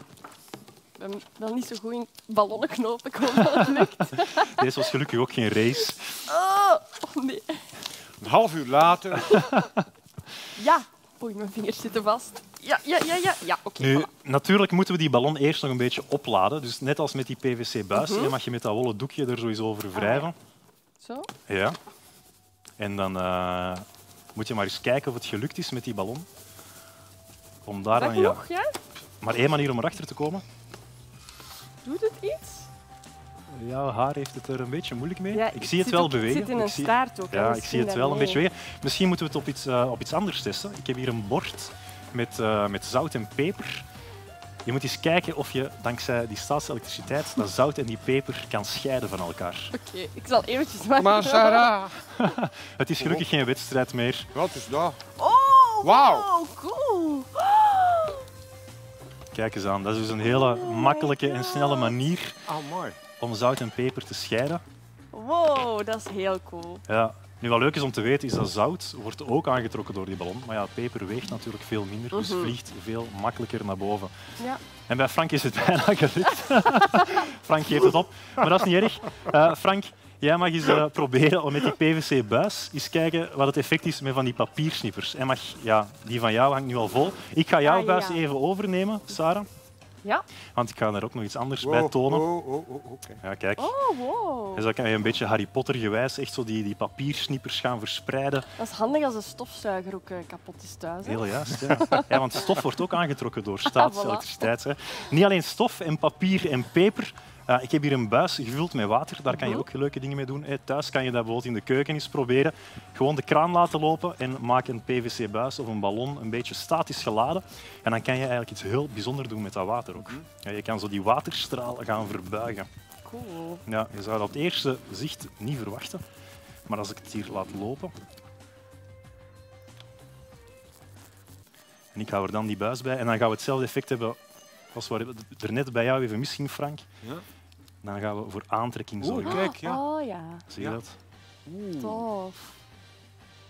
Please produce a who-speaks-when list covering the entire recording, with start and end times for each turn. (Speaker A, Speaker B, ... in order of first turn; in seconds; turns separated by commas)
Speaker A: 1.0-4.8, Speaker B: 4.4-6.2, Speaker A: 6.3-7.7, Speaker C: 8.2-9.4, Speaker B: 9.2-9.8, Speaker A: 10.5-14.1, Speaker B: 13.8-20.3, Speaker A: 17.9-18.3, Speaker A: 19.9-20.3, Speaker A: 21.0-21.3, Speaker B: 21.5-21.8, Speaker B: 22.8-26.2, Speaker B: 27.6-28.4, Speaker A: 27.9-28.7, Speaker B: 29.2-30.4, Speaker A: 31.8-32.7, Speaker B: 33.5-43.9, Speaker A: 35.3-38.4, Speaker B: 44.6-49.7, Speaker A: 49.7-51.8, Speaker C: 51.0-52.0, Speaker B: 52.2-54.3, Speaker C: 53.0-53.2, Speaker C: 54.3-55.0, Speaker A: 55.2-58.2, Speaker C: 55.8-56.3, Speaker B: 59.3-62.4, Speaker A: 60.2-61.9, Speaker C: 62.5-63.0, Speaker B: 63.2-64.6, Speaker A: 65.1-66.8, Speaker B: 66.9-74.1, Speaker A: 72.1-72.5, Speaker B: 74.9-89.5, Speaker A: 87.6-88.2, Speaker B: 90.5-92.2, Speaker C: 91.6-93.2, Speaker B: 93.2-93.7, Speaker A: 93.6-94.7, Speaker B: 94.5-98.5, Speaker A: 98.6-102.4, Speaker B: 101.0-122.7, Speaker A: 103.7-104.5, Speaker A: 109.3-109.6, Speaker A: 123.0-123.6, Speaker B: 123.7-126.0, Speaker B: 126.7-127.9, Speaker B: 131.9-134.2, Speaker B: 134.7-136.9, Speaker B: 137.8-139.4, Speaker C: 139.0-139.8, Speaker A: 139.2-140.4, Speaker B: 140.5-141.0, Speaker C: 141.4-142.0, Speaker A: 141.8-142.5